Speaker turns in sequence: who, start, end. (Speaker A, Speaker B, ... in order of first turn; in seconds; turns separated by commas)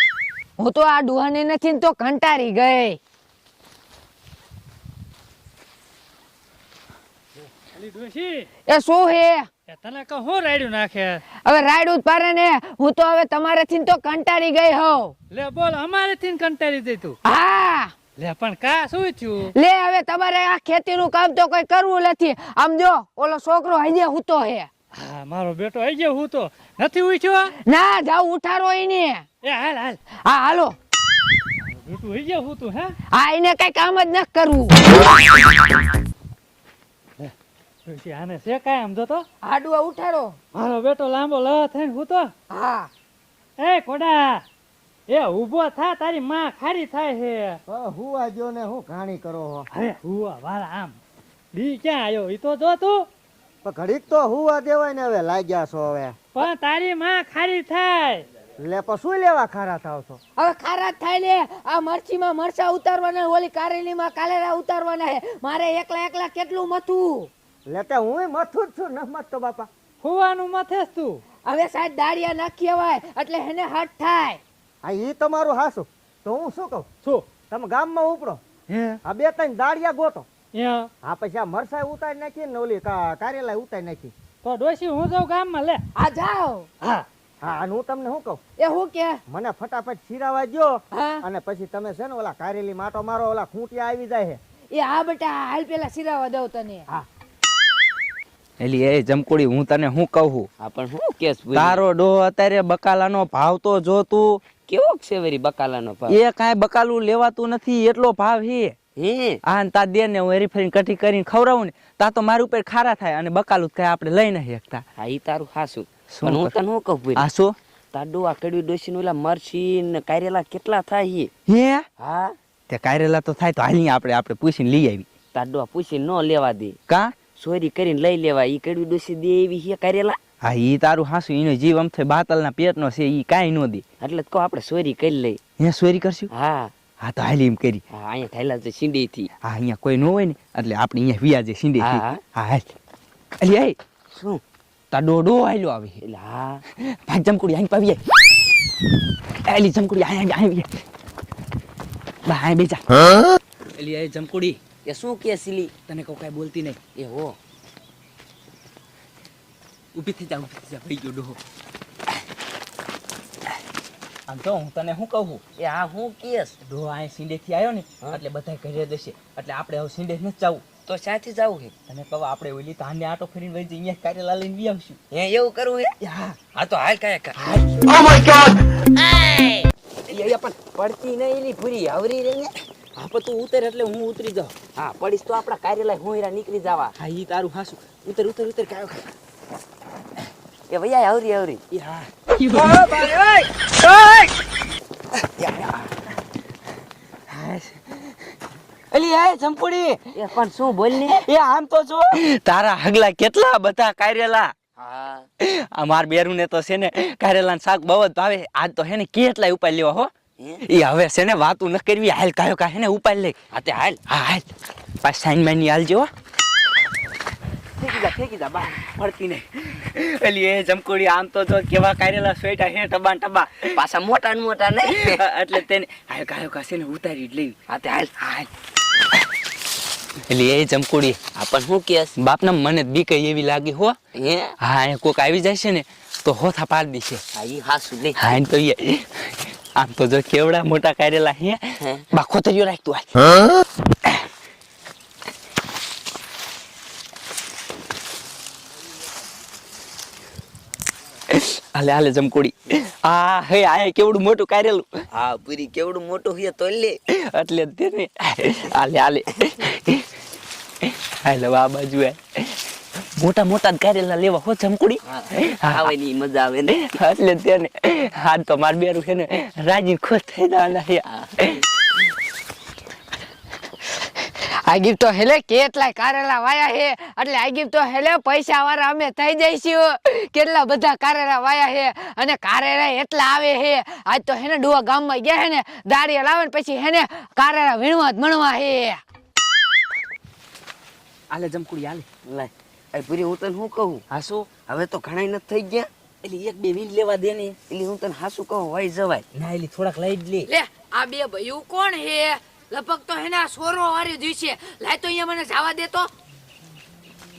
Speaker A: 0.6-3.0, Speaker B: 7.8-8.4, Speaker A: 8.7-9.5, Speaker B: 9.7-11.2, Speaker A: 11.4-15.1, Speaker B: 15.3-17.1, Speaker A: 17.2-17.9, Speaker B: 18.2-19.5, Speaker A: 19.5-24.7, Speaker B: 25.0-27.5, Speaker A: 27.6-29.2, Speaker B: 29.4-30.0, Speaker A: 30.2-30.8, Speaker B: 31.9-32.9, Speaker A: 33.1-34.8, Speaker C: 37.9-38.5, Speaker B: 38.1-39.2, Speaker A: 39.4-40.4, Speaker B: 40.5-42.3, Speaker A: 42.5-42.9, Speaker B: 43.6-44.3, Speaker B: 45.1-47.5, Speaker C: 47.2-47.5, Speaker D: 47.7-49.7, Speaker C: 49.8-50.9, Speaker C: 51.6-52.7, Speaker B: 51.6-53.0, Speaker D: 53.6-56.1, Speaker B: 56.4-58.2, Speaker D: 58.6-60.2, Speaker A: 60.4-67.3, Speaker D: 67.7-69.7, Speaker B: 70.0-71.1, Speaker A: 71.4-74.4, Speaker D: 74.8-76.9, Speaker D: 77.5-78.4, Speaker D: 79.0-80.2, Speaker B: 80.6-80.8, Speaker D: 81.0-84.1, Speaker B: 84.4-85.8, Speaker A: 85.9-86.7, Speaker D: 87.4-88.4, Speaker A: 88.6-89.2, Speaker D: 89.3-94.4, Speaker A: 90.9-91.2, Speaker A: 94.7-96.9, Speaker C: 98.6-100.5, Speaker E: 100.6-101.8, Speaker C: 101.5-104.4, Speaker E: 104.7-106.2, Speaker C: 106.1-108.7, Speaker E: 109.0-109.4, Speaker C: 109.4-114.8, Speaker E: 115.0-117.2, Speaker C: 116.1-116.6, Speaker C: 117.1-117.5, Speaker E: 117.9-121.3, Speaker C: 121.5-121.8, Speaker E: 122.0-122.3, Speaker C: 122.7-125.1, Speaker E: 125.3-126.8, Speaker C: 126.9-127.2, Speaker E: 127.3-130.2, Speaker C: 130.4-133.8, Speaker E: 134.0-135.4, Speaker C: 135.6-136.3, Speaker E: 136.3-136.7, Speaker C: 137.0-137.8, Speaker E: 137.9-139.3, Speaker C: 139.4-142.7, Speaker E: 141.8-142.2, Speaker C: 143.4-143.8, Speaker E: 144.1-144.4, Speaker C: 144.9-146.0, Speaker E: 146.0-146.6, Speaker C: 146.9-148.0, Speaker C: 149.5-150.8, Speaker C: 152.2-152.8, Speaker C: 153.7-154.6, Speaker E: 154.8-155.7, Speaker C: 155.8-156.8, Speaker E: 156.9-157.4, Speaker C: 159.9-161.4, Speaker C: 164.3-165.4, Speaker E: 165.6-166.5, Speaker C: 166.6-170.6, Speaker E: 170.9-171.7, Speaker C: 171.9-175.0, Speaker E: 175.1-175.9, Speaker C: 176.0-176.4, Speaker E: 176.5-177.4, Speaker C: 177.4-178.4, Speaker E: 180.1-182.6, Speaker C: 182.9-184.5, Speaker E: 184.8-186.9, Speaker C: 186.9-189.1, Speaker E: 190.7-191.6, Speaker C: 191.7-194.3, Speaker E: 192.5-193.1, Speaker E: 195.4-195.9, Speaker C: 197.3-197.8, Speaker C: 198.9-200.1, Speaker E: 200.1-201.2, Speaker C: 200.9-204.5, Speaker E: 204.8-205.2, Speaker C: 205.4-210.1, Speaker C: 210.6-213.3, Speaker E: 213.5-214.0, Speaker C: 214.1-214.5, Speaker C: 215.0-216.1, Speaker E: 217.8-218.7, Speaker C: 218.6-223.8, Speaker E: 223.7-225.2, Speaker C: 224.8-227.6, Speaker E: 227.7-228.1, Speaker C: 228.2-228.5, Speaker C: 230.3-231.2, Speaker E: 231.3-232.1, Speaker C: 232.2-233.9, Speaker E: 234.1-234.5, Speaker C: 234.6-237.2, Speaker E: 237.3-238.4, Speaker C: 238.2-241.6, Speaker E: 241.8-242.0, Speaker C: 242.1-243.4, Speaker C: 251.3-254.9, Speaker E: 255.1-257.0, Speaker C: 257.1-260.0, Speaker C: 260.9-262.5, Speaker C: 263.2-265.9, Speaker E: 265.1-267.0, Speaker C: 266.7-271.6, Speaker A: 274.4-289.0, Speaker C: 291.3-292.1, Speaker E: 292.2-295.9, Speaker C: 294.1-294.5, Speaker C: 296.2-297.6, Speaker E: 297.7-299.2, Speaker C: 299.3-300.5, Speaker A: 300.5-306.1